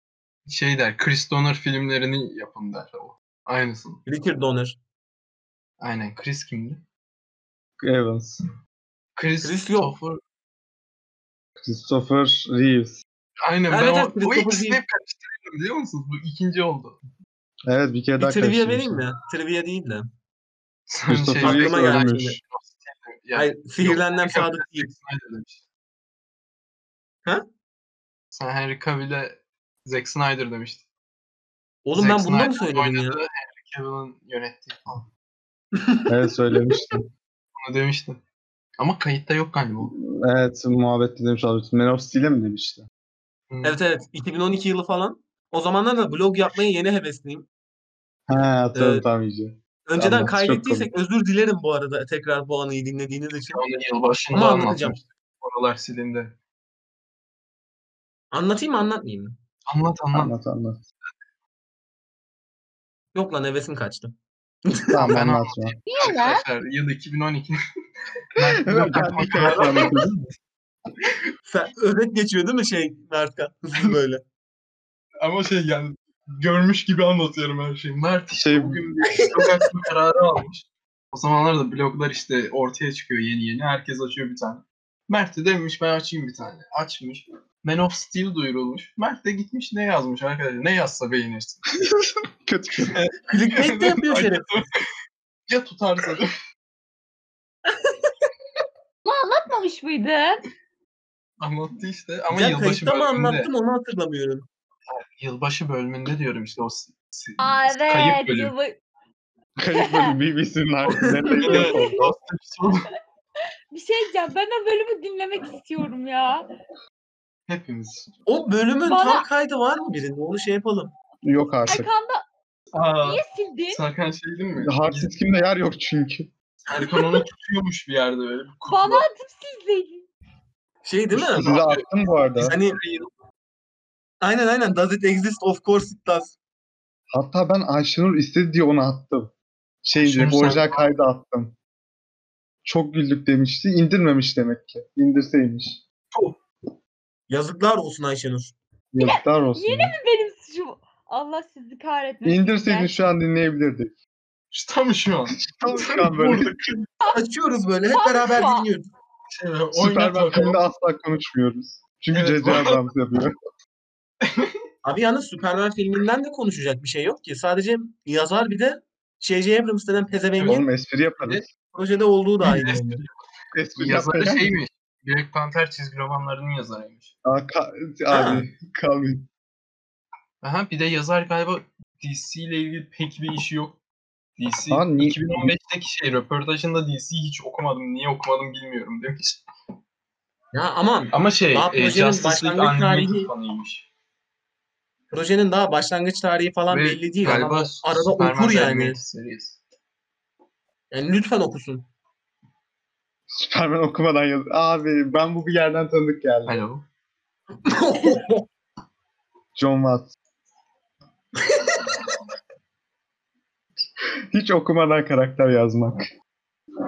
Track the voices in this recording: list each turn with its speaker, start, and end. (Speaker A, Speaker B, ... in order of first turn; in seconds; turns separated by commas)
Speaker A: 0.5-4.0, Speaker B: 4.1-4.8, Speaker A: 5.8-6.8, Speaker C: 7.8-8.4, Speaker A: 9.2-10.2, Speaker B: 9.4-9.9, Speaker C: 11.6-13.0, Speaker A: 13.4-17.0, Speaker B: 13.7-14.8, Speaker C: 17.7-19.0, Speaker B: 18.2-20.1, Speaker A: 20.9-25.6, Speaker C: 21.1-22.4, Speaker B: 21.4-22.4, Speaker B: 23.4-24.9, Speaker A: 28.3-30.8, Speaker B: 31.9-33.2, Speaker A: 31.9-35.1, Speaker B: 35.8-36.1, Speaker C: 36.1-37.1, Speaker A: 37.6-38.2, Speaker A: 38.8-39.9, Speaker C: 39.9-42.9, Speaker A: 43.5-43.8, Speaker B: 43.6-47.5, Speaker C: 48.3-50.9, Speaker B: 48.7-49.0, Speaker B: 49.9-53.6, Speaker A: 53.5-56.3, Speaker B: 54.3-55.0, Speaker B: 58.3-59.4, Speaker A: 59.7-60.3, Speaker C: 60.1-60.8, Speaker B: 63.1-64.1, Speaker B: 64.7-65.2, Speaker C: 64.9-65.8, Speaker A: 65.1-67.6, Speaker D: 65.9-66.4, Speaker A: 68.3-70.1, Speaker C: 68.5-70.2, Speaker B: 69.4-69.9, Speaker B: 71.5-74.2, Speaker A: 75.2-91.8, Speaker C: 78.3-79.4, Speaker C: 91.9-93.0, Speaker A: 92.9-94.9, Speaker B: 93.3-94.6, Speaker A: 95.5-96.3, Speaker D: 99.0-100.4, Speaker A: 101.4-103.5, Speaker B: 102.3-104.5, Speaker A: 104.9-108.5, Speaker D: 107.4-108.8, Speaker C: 109.6-112.1, Speaker D: 109.7-110.2, Speaker B: 110.9-111.4, Speaker A: 111.4-112.9, Speaker D: 111.5-111.9, Speaker D: 113.7-116.5, Speaker A: 117.5-118.1, Speaker B: 118.3-120.9, Speaker D: 118.8-119.3, Speaker C: 121.2-121.9, Speaker D: 121.7-122.2, Speaker A: 122.7-125.1, Speaker D: 123.0-123.8, Speaker C: 124.6-126.3, Speaker A: 126.7-129.1, Speaker D: 128.7-130.1, Speaker B: 130.8-131.6, Speaker A: 131.1-131.9, Speaker C: 131.2-132.6, Speaker B: 132.4-132.8, Speaker A: 132.4-133.1, Speaker B: 134.2-136.4, Speaker C: 137.1-139.3, Speaker C: 139.8-141.6, Speaker A: 140.0-140.9, Speaker C: 142.6-145.8, Speaker A: 146.1-146.4, Speaker B: 147.3-148.6, Speaker C: 148.9-150.0, Speaker D: 149.0-153.1, Speaker C: 152.2-153.9, Speaker A: 154.5-156.8, Speaker C: 155.4-156.6, Speaker B: 157.1-158.9, Speaker D: 157.9-158.7, Speaker A: 159.3-160.6, Speaker C: 159.7-163.3, Speaker A: 162.1-162.8, Speaker A: 164.2-164.6, Speaker B: 164.8-170.7, Speaker A: 170.4-170.6, Speaker C: 170.4-171.5, Speaker B: 171.7-173.0, Speaker A: 172.4-173.2, Speaker C: 173.5-174.6, Speaker A: 173.8-177.1, Speaker C: 177.2-179.3, Speaker A: 180.4-183.8, Speaker A: 184.4-189.4, Speaker C: 184.7-185.5, Speaker B: 190.5-193.3, Speaker A: 191.1-193.9, Speaker B: 195.1-199.0, Speaker A: 196.7-199.6, Speaker B: 200.9-201.9, Speaker C: 203.3-206.6, Speaker A: 206.5-206.8, Speaker B: 207.7-208.4, Speaker C: 209.6-210.1, Speaker B: 211.5-211.8, Speaker C: 214.3-216.1